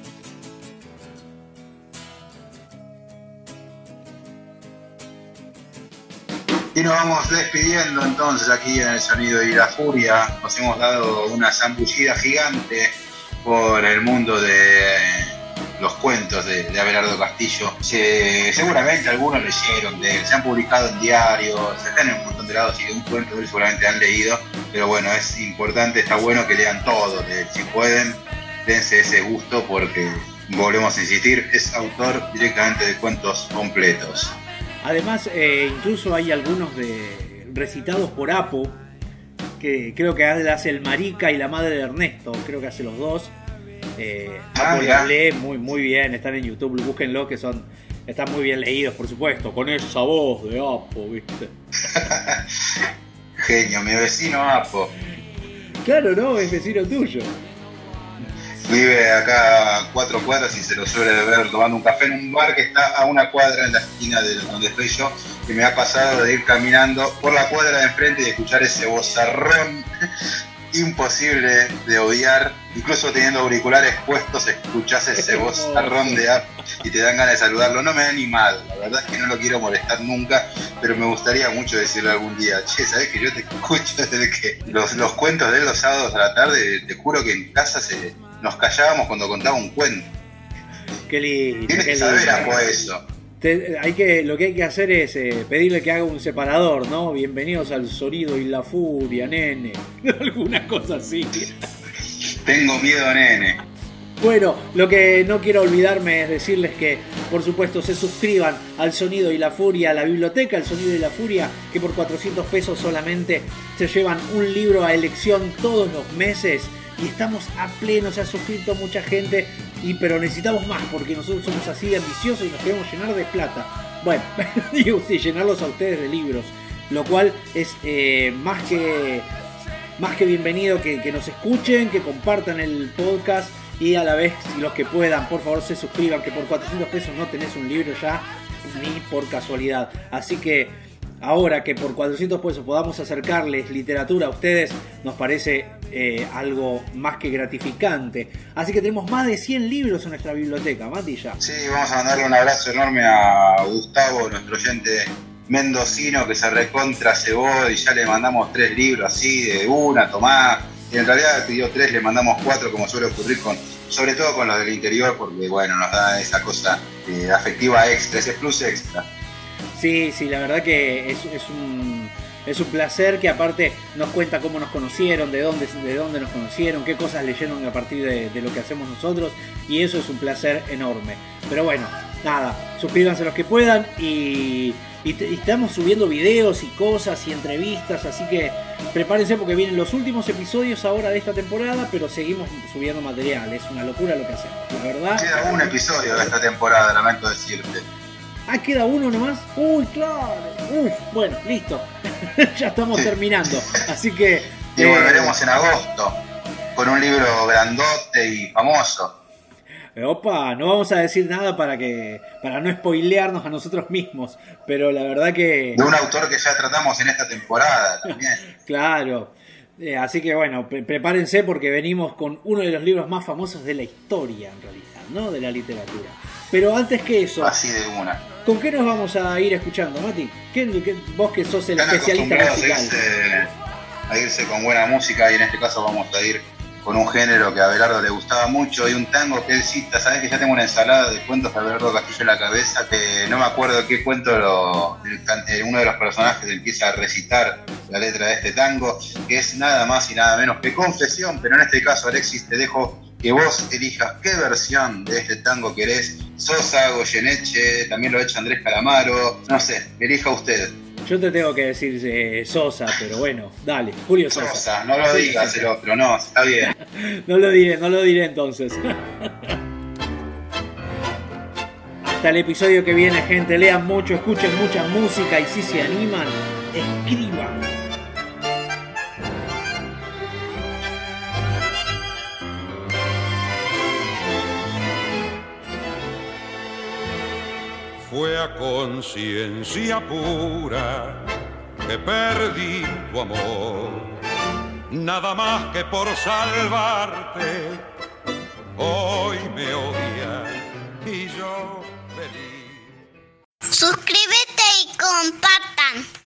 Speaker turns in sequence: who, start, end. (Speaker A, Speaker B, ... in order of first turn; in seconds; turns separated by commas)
Speaker A: 6.7-34.3, Speaker B: 34.8-38.8, Speaker B: 39.6-43.3, Speaker B: 44.0-51.5, Speaker A: 44.5-45.1, Speaker A: 51.9-52.5, Speaker A: 53.4-54.9, Speaker B: 55.8-57.3, Speaker A: 58.6-69.8, Speaker A: 70.7-90.1, Speaker B: 75.1-76.2, Speaker B: 91.1-92.6, Speaker A: 91.7-93.0, Speaker B: 93.4-101.6, Speaker A: 102.4-103.6, Speaker B: 104.2-129.3, Speaker B: 130.0-151.4, Speaker A: 151.4-169.1, Speaker B: 169.7-196.3, Speaker A: 195.2-197.8, Speaker B: 198.5-205.4, Speaker A: 204.8-206.2, Speaker A: 206.8-209.1, Speaker B: 209.9-215.9, Speaker A: 215.7-218.4, Speaker B: 218.6-227.6, Speaker A: 227.4-228.2, Speaker B: 228.4-233.0, Speaker A: 231.8-233.5, Speaker A: 234.1-260.7, Speaker B: 261.1-265.7, Speaker A: 264.3-266.7, Speaker B: 266.8-269.6, Speaker B: 272.1-277.6, Speaker C: 288.0-291.2, Speaker C: 291.9-294.1, Speaker C: 294.9-297.8, Speaker C: 298.8-302.9, Speaker D: 303.7-306.0